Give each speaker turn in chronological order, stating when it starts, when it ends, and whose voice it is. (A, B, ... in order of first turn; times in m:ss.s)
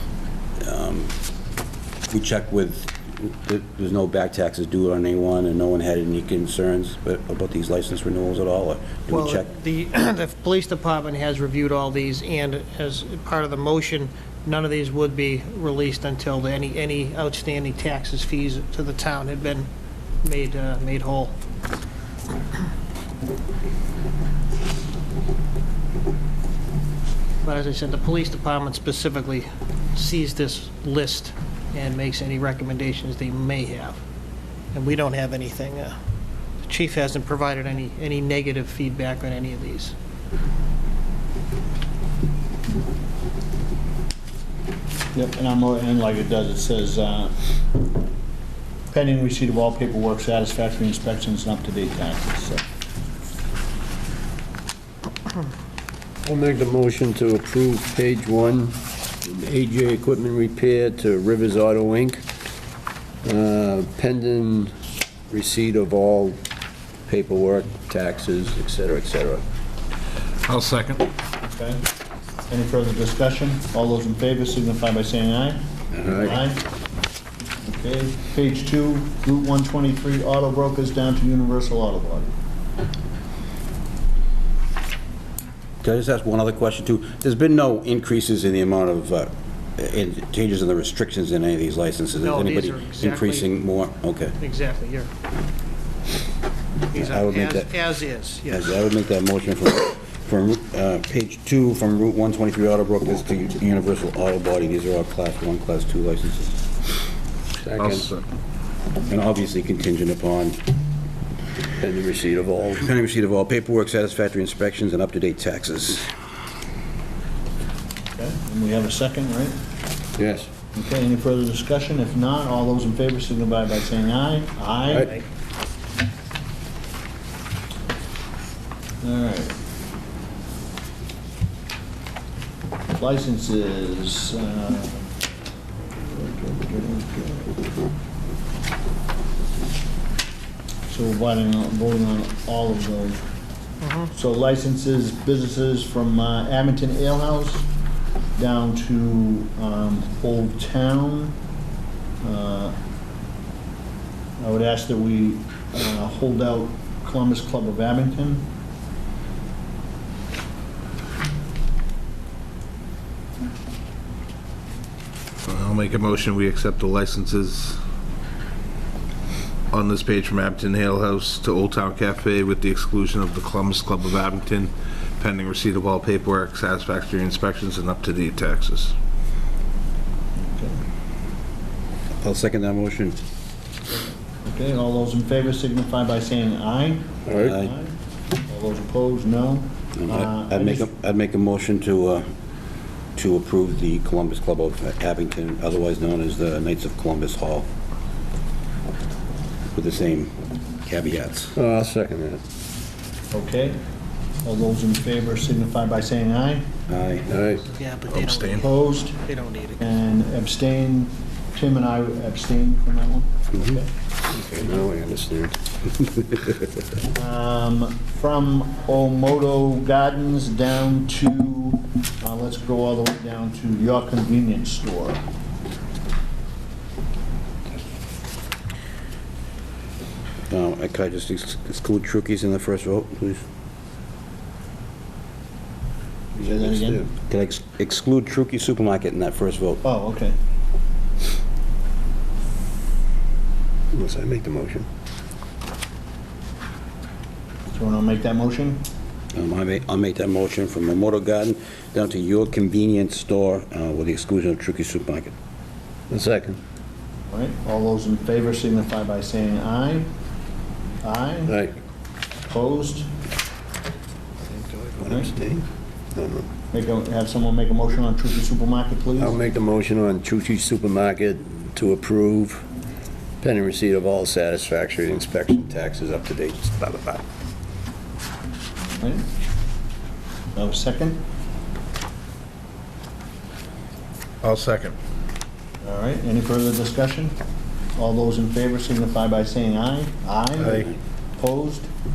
0:00.6-0:01.1 A
0:02.1-0:09.5 A
0:09.1-0:19.7 B
0:20.2-0:21.4 B
0:27.4-0:34.0 B
0:34.7-0:35.9 B
0:36.6-0:40.0 B
0:45.1-0:47.3 C
0:48.9-0:52.6 C
0:56.2-1:02.2 D
1:03.2-1:04.7 D
1:05.3-1:06.4 D
1:07.1-1:09.4 D
1:10.5-1:11.0 E
1:11.4-1:11.8 C
1:12.5-1:16.6 C
1:16.0-1:16.2 A
1:16.1-1:16.4 D
1:17.6-1:22.3 C
1:25.8-1:34.4 A
1:32.2-1:33.5 B
1:34.4-1:35.1 B
1:36.9-1:38.9 B
1:36.9-1:37.7 A
1:38.5-1:46.6 A
1:47.6-1:48.0 D
1:47.8-1:48.2 E
1:49.1-1:50.6 A
1:51.8-1:52.9 D
1:52.8-1:56.1 A
1:58.2-1:59.6 C
2:00.2-2:00.5 D
2:00.7-2:05.2 C
2:09.0-2:09.6 C
2:12.9-2:15.1 C
2:15.9-2:17.6 C
2:20.9-2:23.2 C
2:23.8-2:24.1 B
2:24.1-2:27.7 C
2:28.4-2:31.4 C
2:32.2-2:32.8 C
2:34.4-2:38.4 C
2:45.5-2:47.8 E
2:49.7-2:58.9 E
3:00.4-3:00.8 C
3:02.2-3:03.2 A
3:04.4-3:10.9 C
3:07.4-3:07.7 A
3:10.0-3:12.3 A
3:13.2-3:17.7 A
3:19.8-3:21.5 A
3:21.6-3:22.4 D
3:23.3-3:23.8 C
3:24.4-3:26.7 C
3:26.9-3:27.3 A
3:27.3-3:27.6 D
3:27.6-3:29.9 B
3:28.1-3:28.6 E
3:28.5-3:29.2 C
3:29.8-3:33.9 C
3:34.3-3:36.1 D
3:37.0-3:45.2 C
3:50.5-3:53.4 A
3:56.3-3:57.0 C
3:56.4-3:57.1 D
3:57.3-3:59.8 A
3:59.8-4:00.4 C
4:03.9-4:04.9 D
4:07.7-4:08.8 C
4:09.3-4:15.3 A
4:16.1-4:16.6 D
4:17.3-4:20.1 C
4:21.0-4:21.6 C
4:21.5-4:21.7 D
4:22.5-4:23.1 C
4:24.5-4:26.5 D
4:25.0-4:25.3 C
4:26.7-4:29.4 C
4:29.2-4:32.6 D
4:33.4-4:37.2 D
4:38.8-4:39.2 C
4:40.6-4:41.2 C
4:44.4-4:45.0 E
4:45.8-4:47.3 C
4:48.0-4:51.9 C